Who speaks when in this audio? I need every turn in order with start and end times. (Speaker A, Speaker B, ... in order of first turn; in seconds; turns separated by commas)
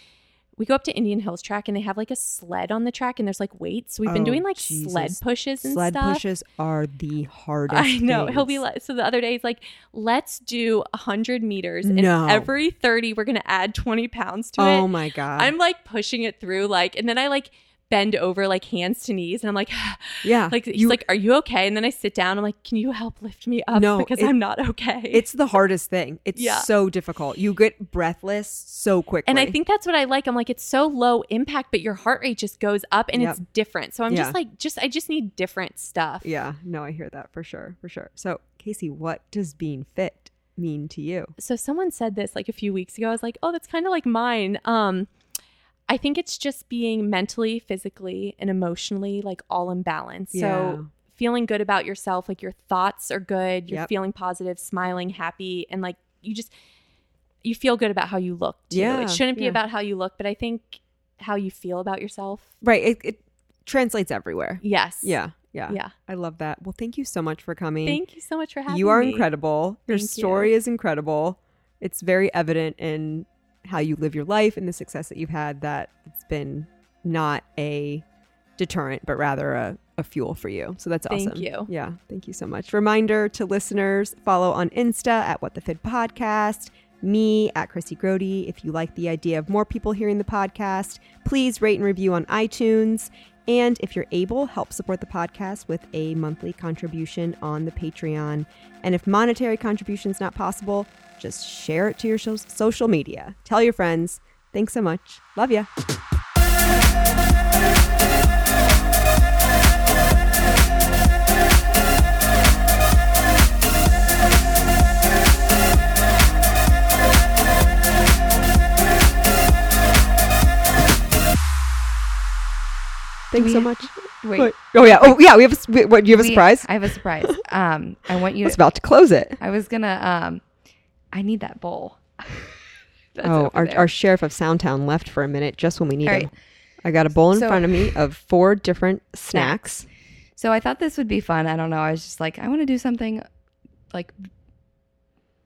Speaker A: 0.6-6.2, Speaker B: 4.1-8.6, Speaker A: 7.7-25.2, Speaker B: 11.8-12.5, Speaker B: 14.6-15.5, Speaker B: 20.2-21.0, Speaker B: 23.7-24.3, Speaker B: 25.1-29.6, Speaker A: 26.4-26.7, Speaker A: 29.3-36.3, Speaker B: 33.1-33.4, Speaker B: 34.1-34.4, Speaker B: 36.2-41.3, Speaker A: 41.4-45.1, Speaker A: 45.9-56.5, Speaker B: 50.3-50.9, Speaker A: 57.4-62.5, Speaker B: 58.7-59.6, Speaker B: 62.6-68.0, Speaker A: 64.6-65.9, Speaker A: 67.8-69.3, Speaker B: 68.7-78.0, Speaker A: 69.9-70.5, Speaker B: 78.6-105.7, Speaker A: 81.1-81.7, Speaker B: 123.3-127.4, Speaker C: 123.3-124.5, Speaker C: 126.1-128.6, Speaker B: 128.4-129.4, Speaker C: 129.4-130.4, Speaker C: 131.1-132.5, Speaker C: 133.2-133.9, Speaker B: 133.2-139.9, Speaker C: 136.0-136.3, Speaker C: 137.3-138.0, Speaker C: 140.4-143.3, Speaker C: 143.9-144.3